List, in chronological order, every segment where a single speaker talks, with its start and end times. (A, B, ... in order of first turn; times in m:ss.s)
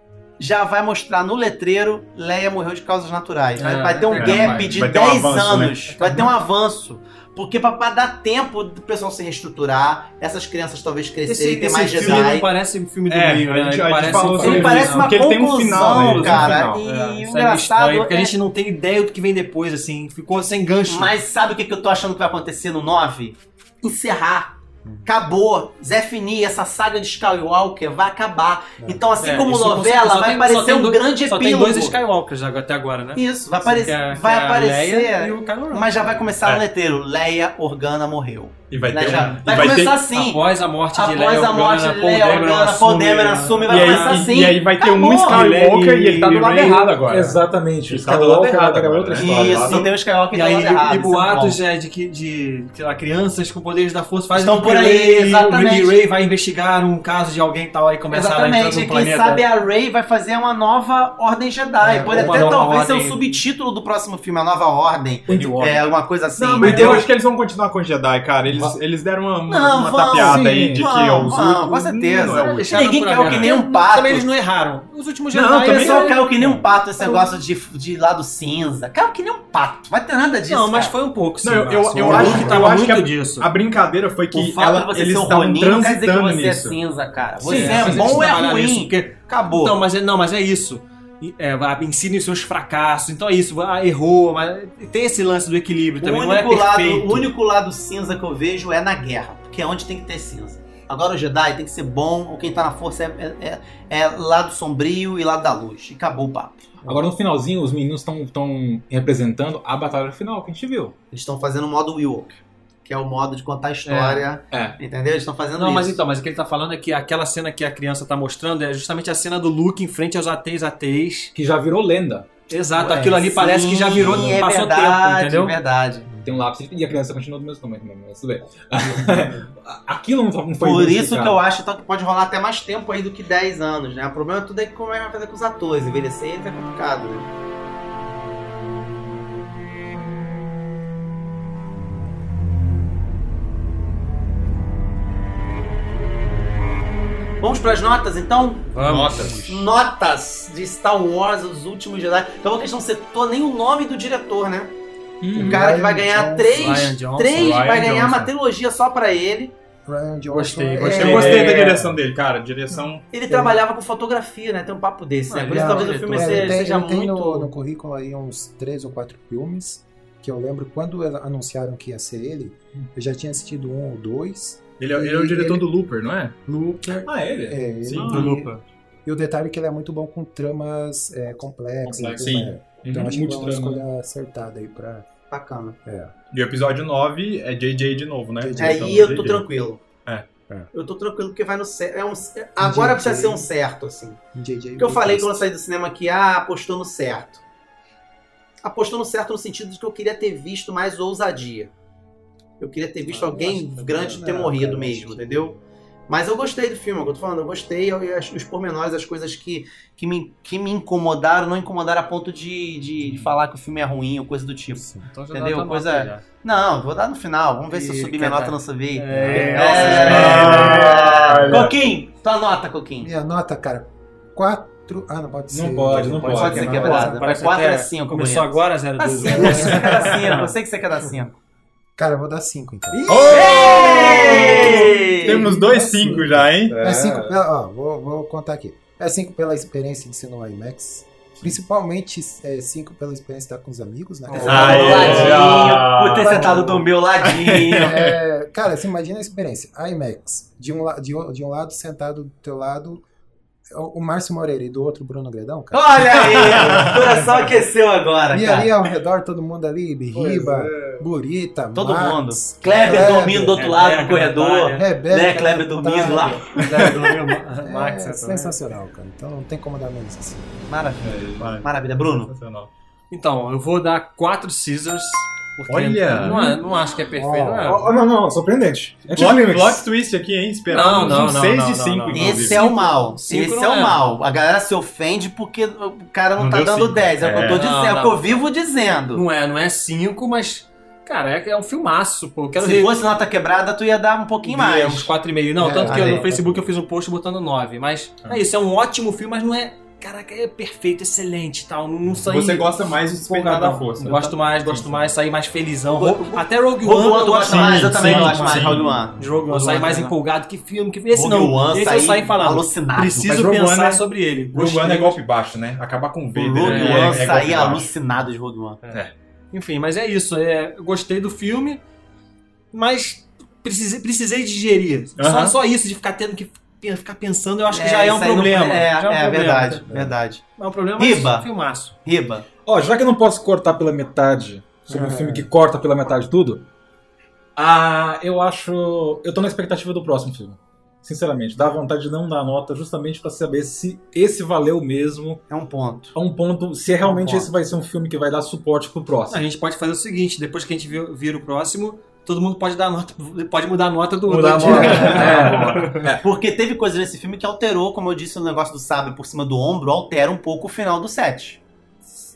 0:00.4-0:12.5 A
0:03.6-0:04.8 B
0:04.1-0:06.3 C
0:11.2-0:15.1 B
0:13.1-0:16.8 C
0:14.1-0:14.7 D
0:14.4-0:18.3 A
0:15.7-0:21.1 B
0:20.9-0:32.0 A
0:28.8-0:29.1 E
0:29.2-0:36.2 B
0:33.1-0:45.6 A
0:38.7-0:40.0 C
0:39.0-0:44.3 B
0:43.7-0:49.9 C
0:45.2-0:47.0 B
0:47.1-0:49.8 D
0:49.2-0:51.6 A
0:50.3-0:59.4 B
0:54.3-0:56.0 A
0:58.1-1:07.0 A
1:01.8-1:02.4 E
1:01.9-1:03.4 B
1:05.3-1:05.8 B
1:06.4-1:13.5 C
1:06.6-1:07.0 D
1:08.5-1:08.8 D
1:09.5-1:14.3 A
1:10.2-1:10.9 D
1:12.2-1:16.3 B
1:15.3-1:16.2 C
1:15.6-1:21.0 A
1:16.4-1:16.6 E
1:17.0-1:17.3 B
1:20.4-1:23.5 B
1:21.4-1:26.8 C
1:22.0-1:22.6 A
1:24.3-1:29.8 A
1:27.4-1:28.2 D
1:27.4-1:37.3 B
1:36.0-1:46.9 A
1:46.8-1:50.9 D
1:51.1-1:56.0 A
1:53.8-1:54.3 B
1:54.5-1:54.8 D
1:55.5-2:01.3 B
2:01.3-2:02.3 D
2:02.5-2:05.5 B
2:02.8-2:06.1 A
2:04.0-2:04.4 D
2:06.1-2:06.4 E
2:06.2-2:11.4 D
2:08.8-2:09.4 E
2:10.6-2:17.3 A
2:27.4-2:34.7 A
2:28.7-2:29.6 B
2:28.8-2:29.4 C
2:35.2-2:35.6 D
2:35.3-2:36.8 E
2:35.3-2:39.5 A
2:36.5-2:38.2 B
2:37.3-2:38.3 C
2:39.8-2:42.0 E
2:40.3-2:41.8 B
2:40.8-2:41.6 A
2:40.8-2:43.1 C
2:43.1-2:47.5 A
2:43.3-2:43.6 E
2:45.3-2:46.6 B
2:45.5-2:55.6 E
2:54.8-2:56.4 C
2:56.5-2:58.5 E
2:57.0-2:57.6 D
2:57.8-2:58.3 C
2:58.0-2:58.6 B
2:59.0-3:05.1 E
3:01.8-3:03.8 D
3:02.2-3:03.1 C
3:05.3-3:05.8 A
3:05.8-3:06.1 E
3:06.3-3:09.5 C
3:08.4-3:09.2 E
3:08.6-3:09.8 A
3:10.7-3:14.2 A
3:12.6-3:13.5 E
3:14.3-3:15.5 E
3:14.8-3:17.4 A
3:18.6-3:21.7 A
3:22.6-3:43.1 A
3:23.1-3:24.3 B
3:23.2-3:25.5 E
3:34.8-3:35.1 E
3:35.0-3:36.2 B
3:37.7-3:41.1 B
3:39.1-3:39.9 E
3:39.9-3:41.7 C
3:43.0-3:47.2 E
3:45.5-3:47.1 D
3:46.2-3:51.4 A
3:46.4-3:50.5 B
3:49.3-3:50.1 E
3:52.0-3:53.2 E
3:52.9-3:54.3 D
3:53.1-3:56.8 C
3:53.3-3:55.5 A
3:54.1-4:05.6 E
3:56.7-3:57.4 D
4:04.3-4:05.4 B
4:04.4-4:06.6 C
4:04.4-4:07.9 A
4:06.2-4:06.8 E
4:07.2-4:08.1 C
4:07.8-4:13.0 E
4:13.7-4:16.9 E
4:15.7-4:18.7 A
4:18.3-4:23.6 E
4:21.7-4:26.5 A
4:22.7-4:24.8 B
4:24.7-4:26.6 E
4:26.4-4:28.6 B
4:27.6-4:30.4 E
4:30.7-4:32.3 A
4:31.0-4:32.7 C
4:33.1-4:37.9 B
4:35.7-4:36.5 C
4:37.1-4:38.0 E
4:37.6-4:39.8 D
4:39.1-4:42.7 C
4:40.7-4:44.0 B
4:42.1-4:49.2 A
4:46.4-4:47.6 C
4:47.5-4:48.5 B
4:49.1-4:52.9 B
4:52.6-4:55.1 A
4:54.4-5:02.7 B
4:55.6-4:56.6 E
4:55.8-4:56.2 A
5:02.2-5:04.8 C
5:04.0-5:15.2 B
5:05.9-5:10.1 A
5:07.4-5:09.0 C
5:11.1-5:13.5 A
5:13.5-5:13.9 C
5:14.5-5:17.9 C
5:16.3-5:18.8 A
5:16.6-5:17.2 B
5:18.8-5:21.8 B
5:22.7-5:29.8 B
5:25.2-5:25.6 C
5:27.7-5:30.4 A
5:29.9-5:30.1 E
5:30.6-5:32.0 B
5:31.0-5:31.5 A
5:32.0-5:32.4 A
5:32.6-5:36.6 D
5:34.9-5:35.5 E
5:37.6-5:45.4 D
5:45.5-5:46.1 A
5:46.1-5:49.4 D
5:47.0-5:47.5 A
5:49.3-5:56.0 B
5:54.3-5:56.2 D
5:54.7-5:55.5 A
5:56.1-6:01.6 A